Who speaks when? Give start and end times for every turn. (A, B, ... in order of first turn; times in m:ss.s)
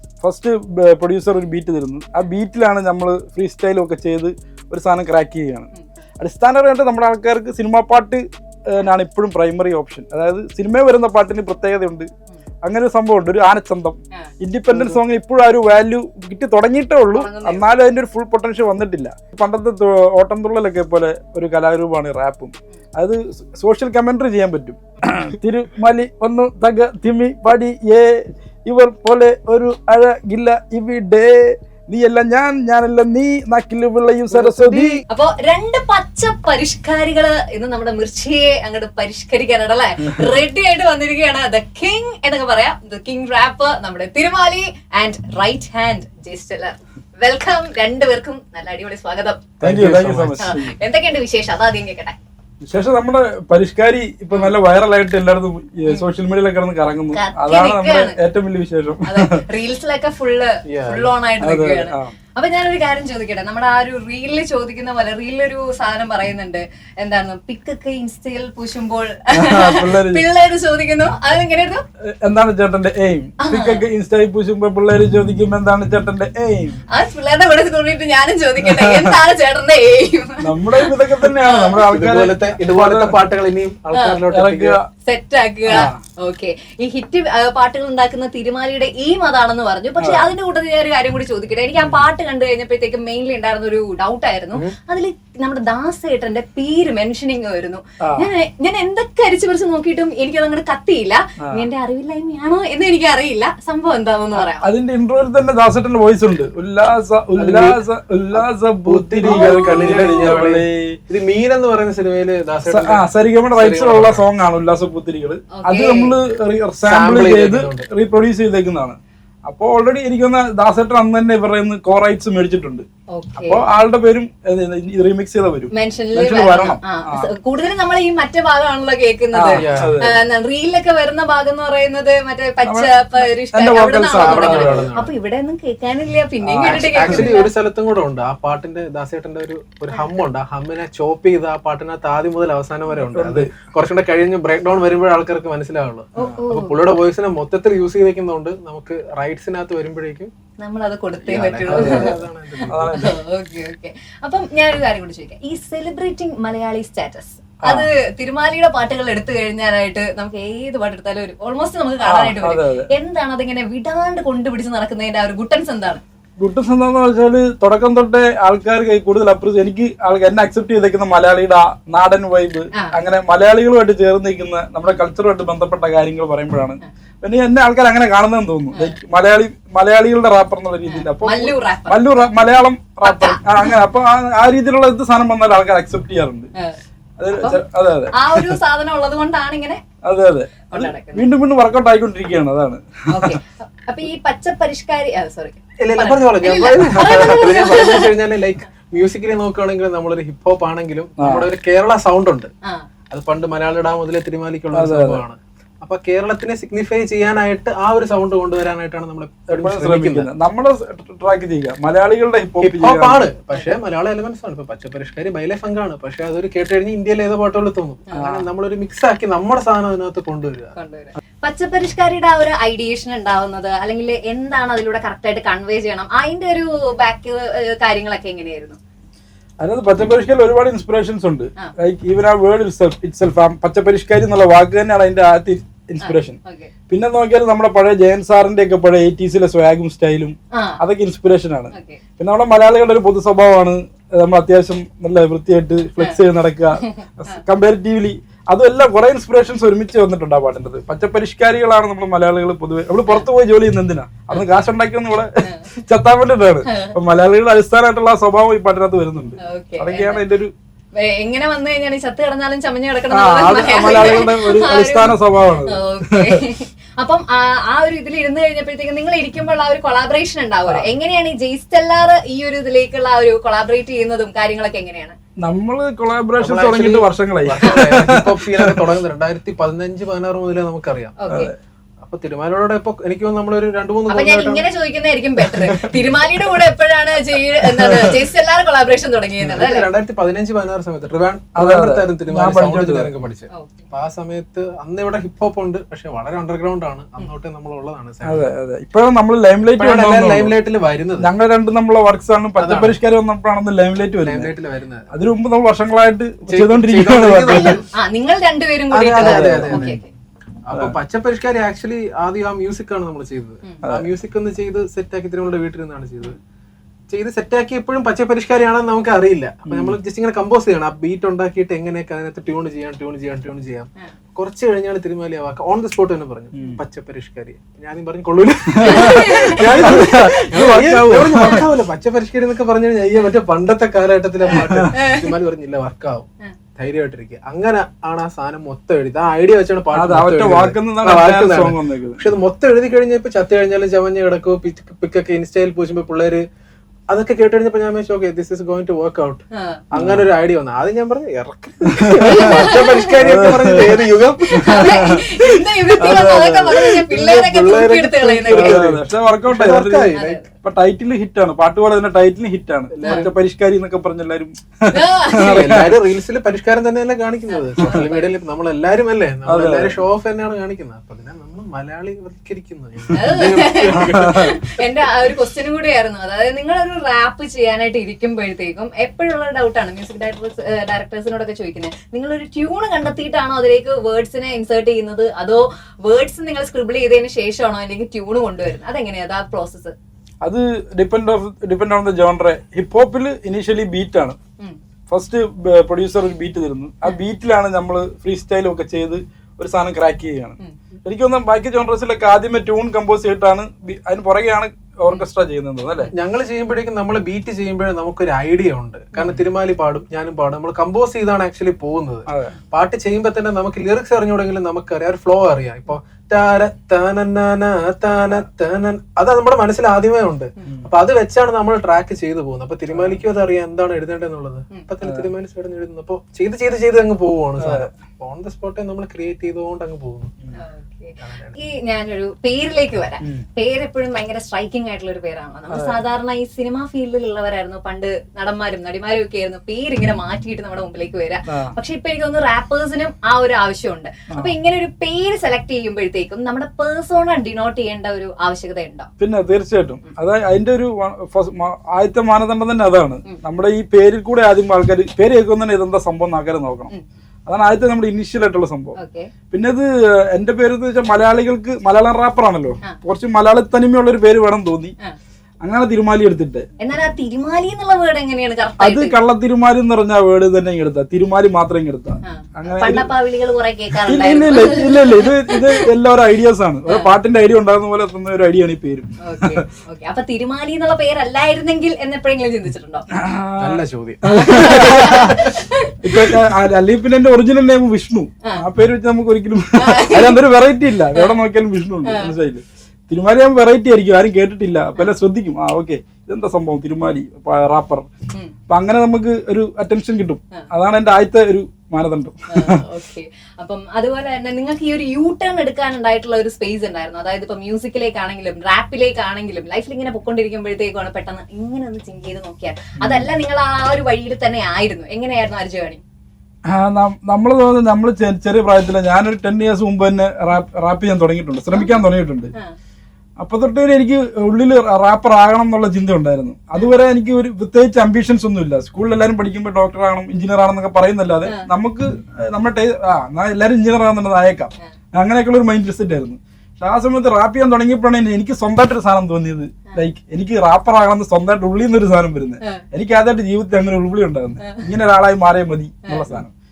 0:00.2-0:12.1 A
0:12.6-0:35.0 A
0:14.7-0:15.0 B
0:17.1-0:17.6 C
0:34.3-0:35.0 B
0:35.1-0:49.5 C
0:49.6-0:50.4 B
0:49.6-0:50.8 A
0:50.4-0:52.2 C
0:52.6-0:59.4 A
0:57.1-0:58.2 C
0:59.0-1:11.8 C
1:00.7-1:01.1 B
1:01.4-1:02.1 A
1:09.3-1:10.2 A
1:12.0-1:16.8 A
1:13.4-1:13.8 C
1:16.9-1:21.8 C
1:18.6-1:19.2 A
1:20.4-1:23.2 A
1:21.9-1:24.8 B
1:23.9-1:24.2 C
1:24.3-1:24.9 A
1:25.0-1:44.7 C
1:25.7-1:26.0 A
1:30.0-1:30.3 A
1:38.0-1:38.3 A
1:44.4-1:51.0 A
1:47.4-1:47.8 B
1:48.3-1:54.2 B
1:49.3-1:50.4 C
1:52.7-2:02.9 A
1:55.5-1:56.2 C
1:56.9-1:57.9 B
2:03.1-2:03.7 C
2:03.4-2:07.3 A
2:05.7-2:17.5 C
2:09.3-2:10.2 A
2:09.5-2:10.1 B
2:12.7-2:14.9 A
2:14.2-2:15.1 B
2:16.4-2:17.3 A
2:16.6-2:30.3 B
2:23.1-2:23.5 A
2:26.2-2:26.8 C
2:30.6-2:46.0 C
2:31.2-2:33.0 B
2:31.7-2:33.2 A
2:37.6-2:37.9 A
2:42.0-2:42.9 A
2:46.4-3:06.5 A
2:58.7-2:59.0 C
3:00.9-3:02.3 C
3:03.0-3:03.8 C
3:07.2-3:08.6 A
3:07.3-3:07.6 C
3:08.1-3:09.8 C
3:10.0-3:13.4 A
3:10.7-3:11.3 C
3:13.1-3:18.1 C
3:15.8-3:22.5 B
3:16.9-3:17.5 A
3:21.2-3:21.5 A
3:23.1-3:30.3 B
3:24.7-3:25.2 A
3:29.5-3:33.3 A
3:32.6-3:40.7 B
3:38.2-3:38.5 A
3:40.8-3:48.8 C
3:49.6-3:56.4 A
3:56.0-3:56.7 C
3:56.9-4:20.5 A
4:00.5-4:00.8 C
4:01.7-4:02.0 C
4:06.8-4:07.4 C
4:15.4-4:15.7 C
4:16.7-4:17.0 C
4:19.4-4:20.2 C
4:21.0-4:35.2 C
4:23.1-4:26.4 A
4:35.4-4:38.8 A
4:36.4-4:41.2 B
4:41.2-4:41.5 C
4:41.3-4:41.6 A
4:42.0-4:44.6 B
4:44.1-4:49.9 C
4:45.4-4:46.0 A
4:47.6-4:48.2 A
4:49.5-4:58.5 B
4:51.6-4:53.1 A
4:53.5-4:53.9 C
4:58.2-5:00.6 A
4:59.7-5:01.3 B
5:01.2-5:04.5 A
5:02.6-5:03.0 B
5:04.2-5:05.1 B
5:05.1-5:07.8 A
5:06.5-5:07.8 B
5:07.9-5:10.1 C
5:08.9-5:10.0 B
5:09.2-5:10.0 A
5:10.7-5:16.4 B
5:17.1-5:46.4 B
5:19.7-5:20.0 A
5:28.8-5:31.7 A
5:28.8-5:29.6 C
5:34.5-5:35.3 C
5:34.6-5:34.9 A
5:39.9-5:42.2 A
5:47.1-5:55.0 B
5:49.5-5:49.8 C
5:50.0-5:50.3 A
5:52.0-5:55.2 A
5:52.2-5:53.1 C
5:54.5-5:58.8 C
5:56.0-5:57.0 A
5:56.9-6:00.4 B
5:58.5-6:06.0 A
6:00.1-6:00.5 C
6:02.9-6:03.3 B
6:03.0-6:03.3 C
6:04.9-6:05.7 C
6:05.3-6:14.6 B
6:07.5-6:08.4 C
6:09.5-6:10.0 A
6:13.1-6:30.0 C
6:14.0-6:14.6 A
6:30.4-6:34.4 A
6:35.1-6:46.1 A
6:46.2-7:10.3 B
6:52.3-6:52.5 A
7:02.9-7:03.2 A
7:05.0-7:05.3 A
7:07.6-7:07.9 A
7:10.5-7:29.1 C
7:11.2-7:11.6 B
7:15.7-7:16.0 A
7:21.5-7:21.8 A
7:29.2-7:36.9 A
7:37.5-7:39.0 A
7:39.0-7:39.3 C
7:39.5-7:44.9 A
7:45.6-7:46.7 A
7:46.8-7:49.2 C
7:48.8-7:53.1 A
7:52.2-7:55.9 C
7:54.1-7:59.6 A
7:59.2-8:03.1 C
8:03.1-8:18.1 A
8:03.6-8:04.7 B
8:04.3-8:06.3 C
8:09.8-8:10.4 C
8:12.0-8:12.4 C
8:18.7-8:22.8 A
8:22.5-8:36.0 C
8:33.0-8:33.3 A
8:36.7-8:42.5 A
8:41.7-8:42.8 C
8:43.4-9:06.5 A
9:06.1-9:06.4 C